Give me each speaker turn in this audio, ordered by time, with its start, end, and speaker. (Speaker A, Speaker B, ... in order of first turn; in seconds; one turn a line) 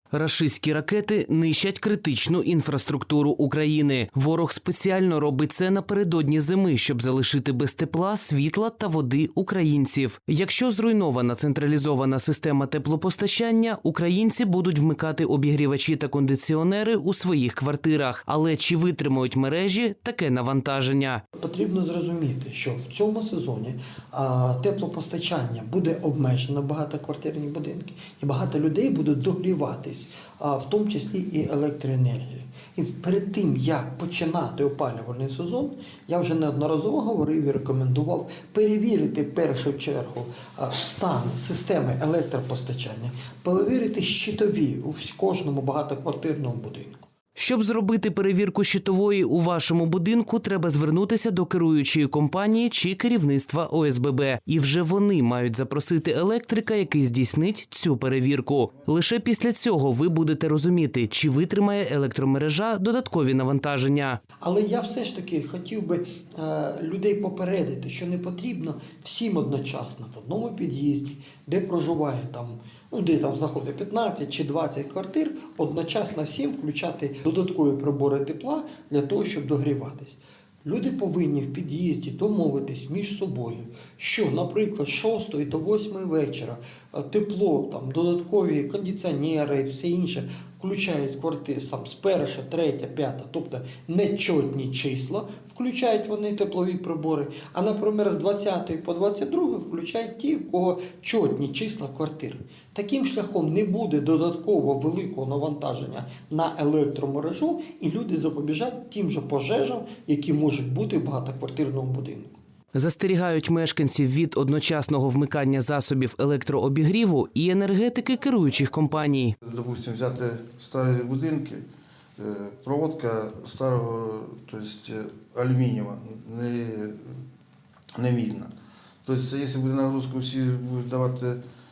Speaker A: 0.1-21.2
Speaker B: 21.4-47.0
Speaker A: 47.4-64.2
Speaker B: 64.4-112.4
Speaker A: 112.8-119.3
Speaker C: 119.4-121.6
Speaker C: 122.2-127.2
Speaker C: 128.0-128.5
Speaker C: 129.1-131.4